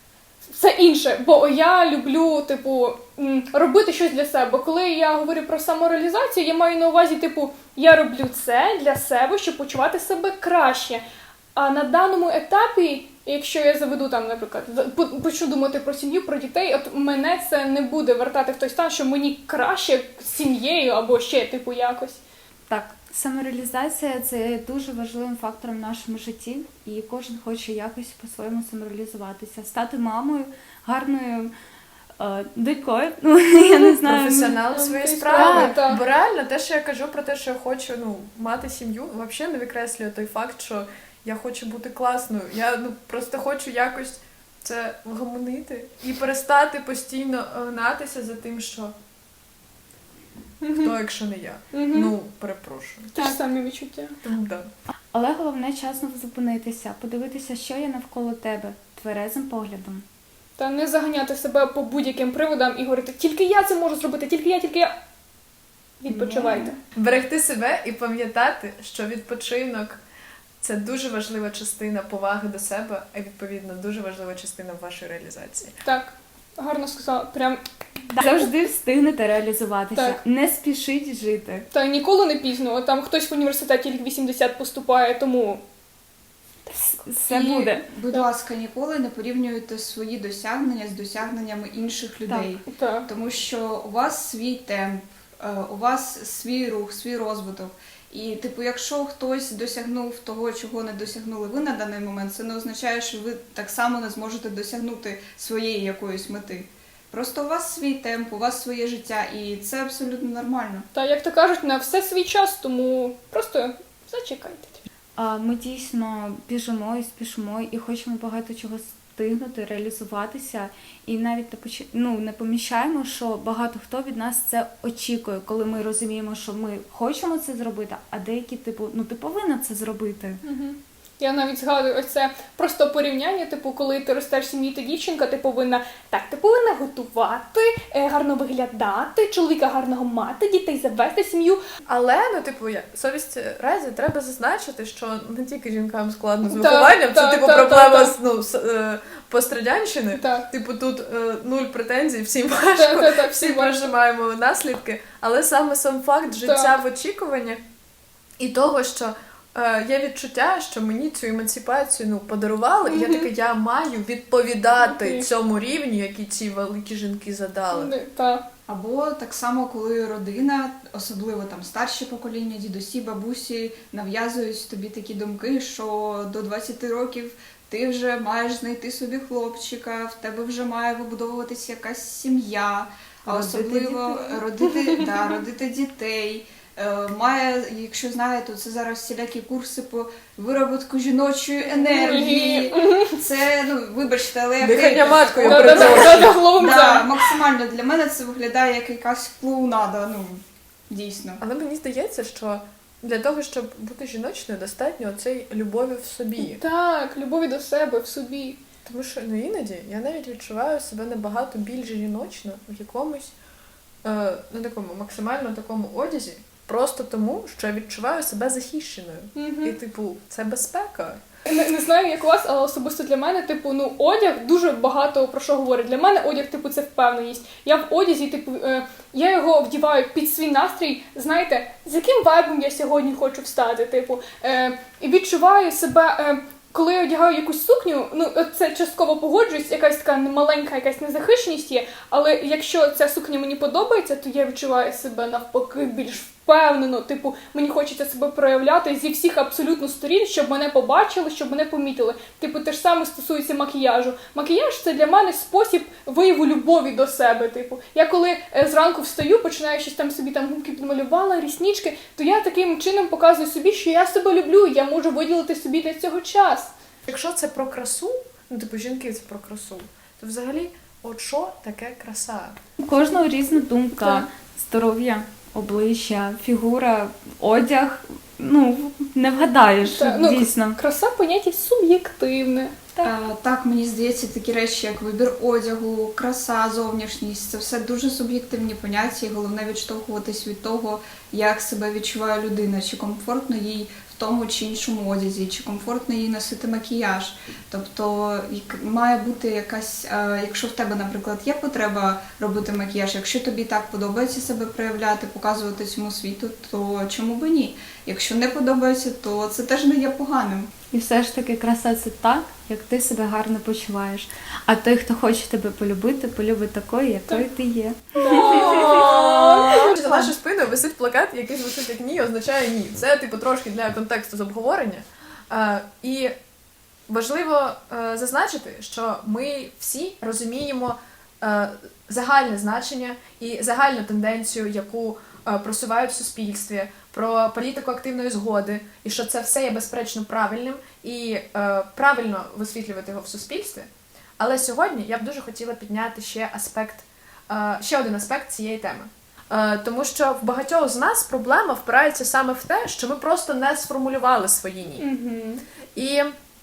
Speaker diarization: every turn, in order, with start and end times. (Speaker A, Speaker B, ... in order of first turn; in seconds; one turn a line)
Speaker A: 0.5-11.0
Speaker A: 11.6-22.2
Speaker B: 22.7-31.5
Speaker B: 32.2-34.6
Speaker C: 34.0-48.9
Speaker A: 34.7-36.0
Speaker B: 35.4-35.8
Speaker A: 50.6-50.9
Speaker C: 50.8-53.4
Speaker A: 51.7-52.1
Speaker A: 53.1-54.1
Speaker C: 54.2-54.7
Speaker B: 55.1-60.0
Speaker A: 60.6-65.0
Speaker A: 66.0-66.8
Speaker B: 66.1-66.7
Speaker C: 66.9-70.0
Speaker C: 70.6-75.8
Speaker A: 75.8-77.6
Speaker B: 78.1-81.7
Speaker A: 78.2-78.5
Speaker A: 79.9-80.2
Speaker A: 81.7-85.6
Speaker B: 86.6-87.8
Speaker D: 87.2-110.8
Speaker A: 92.7-93.1
Speaker A: 110.9-114.8
Speaker B: 115.2-130.4
Speaker A: 130.4-141.6
Speaker C: 141.9-157.6
Speaker A: 146.5-148.1
Speaker A: 150.1-150.4
Speaker A: 152.7-153.9
Speaker A: 156.3-156.8
Speaker C: 158.4-167.9
Speaker A: 162.9-163.3
Speaker A: 164.8-165.3
Speaker A: 167.7-168.4
Speaker D: 168.7-201.4
Speaker B: 183.2-184.4
Speaker A: 184.8-185.0
Speaker A: 191.6-193.1
Speaker C: 194.6-196.4
Speaker A: 195.4-197.3
Speaker C: 201.4-206.6
Speaker A: 206.4-208.6
Speaker C: 208.8-213.3
Speaker C: 214.0-221.2
Speaker A: 219.3-219.8
Speaker A: 221.4-266.7
Speaker C: 267.1-272.6
Speaker B: 272.8-280.8
Speaker A: 274.0-274.2
Speaker A: 279.8-282.9
Speaker D: 283.0-310.7
Speaker B: 310.9-319.1
Speaker A: 318.2-319.9
Speaker C: 318.3-326.3
Speaker C: 327.1-343.9
Speaker C: 344.4-355.1
Speaker A: 355.0-355.6
Speaker C: 355.9-356.3